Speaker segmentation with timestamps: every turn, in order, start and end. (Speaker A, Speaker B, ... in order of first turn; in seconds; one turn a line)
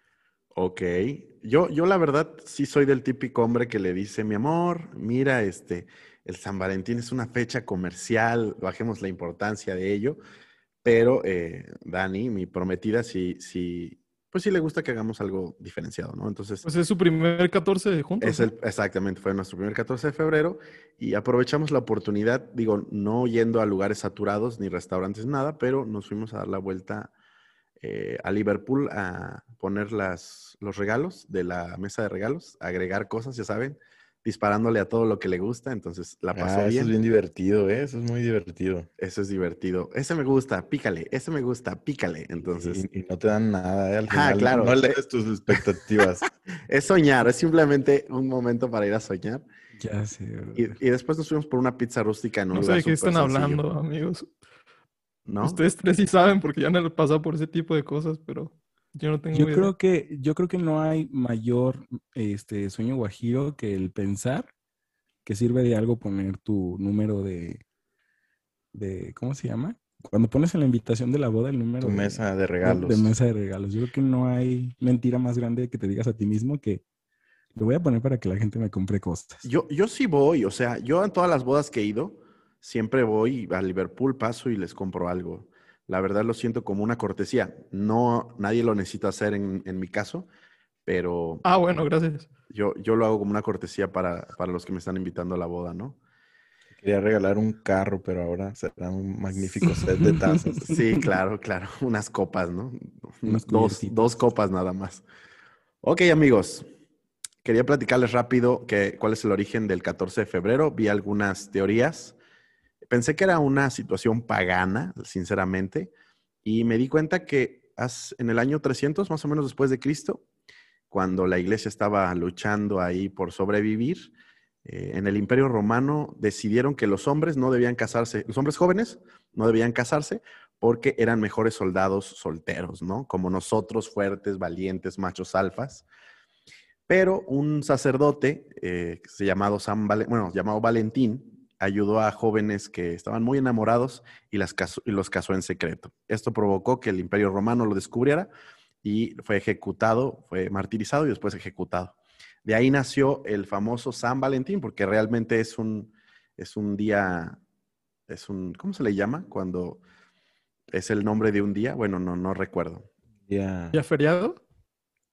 Speaker A: 0.5-10.2
Speaker A: 10.8-16.7
Speaker B: 16.6-18.5
Speaker A: 18.2-27.1
Speaker A: 27.8-36.9
Speaker C: 36.3-38.9
Speaker A: 39.0-42.8
Speaker C: 42.4-46.2
Speaker A: 44.1-45.0
Speaker A: 46.7-49.4
Speaker D: 49.8-50.8
Speaker A: 50.6-53.6
Speaker B: 52.5-54.3
Speaker A: 55.2-55.6
Speaker B: 55.4-59.7
Speaker D: 59.3-64.5
Speaker D: 65.2-67.6
Speaker D: 68.7-76.8
Speaker C: 71.8-73.1
Speaker D: 77.5-79.5
Speaker A: 79.4-90.3
Speaker A: 90.8-91.8
Speaker B: 91.4-92.3
Speaker A: 92.5-96.0
Speaker C: 96.8-100.8
Speaker D: 99.6-100.6
Speaker A: 100.7-105.0
Speaker D: 103.2-104.0
Speaker A: 105.8-106.6
Speaker A: 107.4-112.2
Speaker A: 112.9-115.9
Speaker A: 116.4-120.2
Speaker A: 120.9-124.1
Speaker A: 124.6-135.8
Speaker A: 136.9-148.3
Speaker A: 148.8-157.4
Speaker A: 158.1-159.8
Speaker A: 160.7-162.9
Speaker C: 163.3-163.8
Speaker B: 163.7-164.4